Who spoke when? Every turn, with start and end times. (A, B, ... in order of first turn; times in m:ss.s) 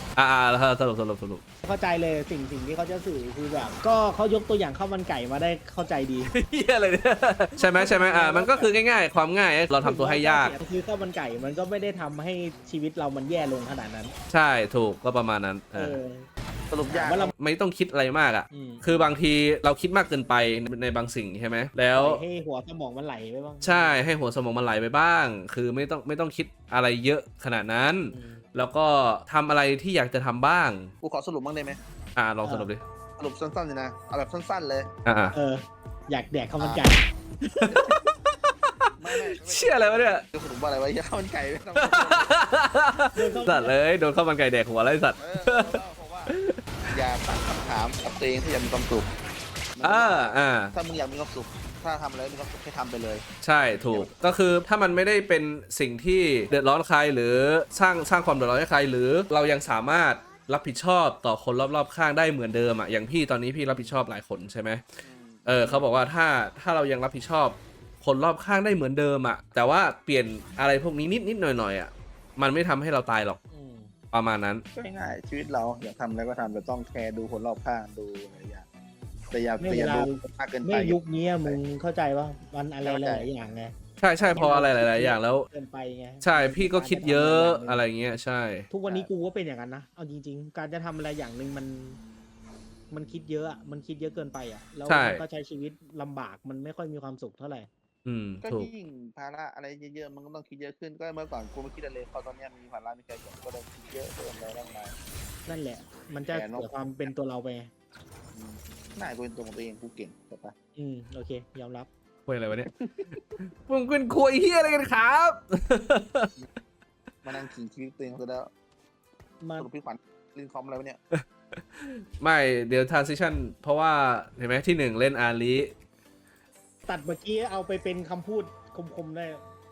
0:00.2-0:01.4 A
0:01.6-0:06.3 B
0:06.3-0:10.6 A
0:07.6-0:08.7 B
0:09.8-0:14.2 B
0:14.3-0:16.0 A
0:15.8-0:16.3 B
0:16.7-0:17.3 C
0:16.9-0:17.3 B
0:17.4-0:22.2 A
0:18.5-0:18.9 B
0:21.9-0:24.0 B
0:23.6-0:30.9 A
0:28.1-0:28.4 B
0:31.0-0:31.8 C
0:32.2-0:32.8 A
0:32.4-0:32.7 B
0:33.2-0:34.9 C
0:35.0-0:35.4 A
0:35.3-0:37.7 B
0:36.6-0:36.9 C
0:37.6-0:38.1 A
0:39.0-0:42.3 C
0:39.4-0:40.2 A
0:41.8-0:45.7 A
0:43.1-0:43.8 B
0:45.2-0:46.3 C
0:46.3-0:46.6 A
0:46.9-0:49.1 C
0:49.8-0:53.2 C
0:49.8-0:50.7 A
0:53.4-1:04.8 A
0:53.9-0:54.1 C
1:03.7-1:04.0 B
1:05.0-1:05.9 C
1:05.5-1:13.4 A
1:13.5-1:13.9 B
1:14.1-1:14.6 A
1:14.7-1:18.7 C
1:19.3-1:21.6 C
1:19.6-1:27.8 B
1:22.8-1:23.3 C
1:24.0-1:25.5 A
1:26.2-1:28.7 A
1:28.7-1:32.0 B
1:32.9-1:37.7 B
1:34.9-1:35.2 A
1:38.0-1:38.7 A
1:38.4-1:45.0 C
1:45.5-1:47.7 B
1:46.3-1:46.7 C
1:48.3-1:50.5 C
1:50.8-1:51.9 B
1:52.3-1:52.7 A
1:52.7-1:53.2 C
1:53.4-1:56.3 A
1:57.2-1:58.5 C
1:59.4-1:59.7 B
1:59.6-2:01.0 C
2:01.1-2:05.7 A
2:06.9-2:09.4 B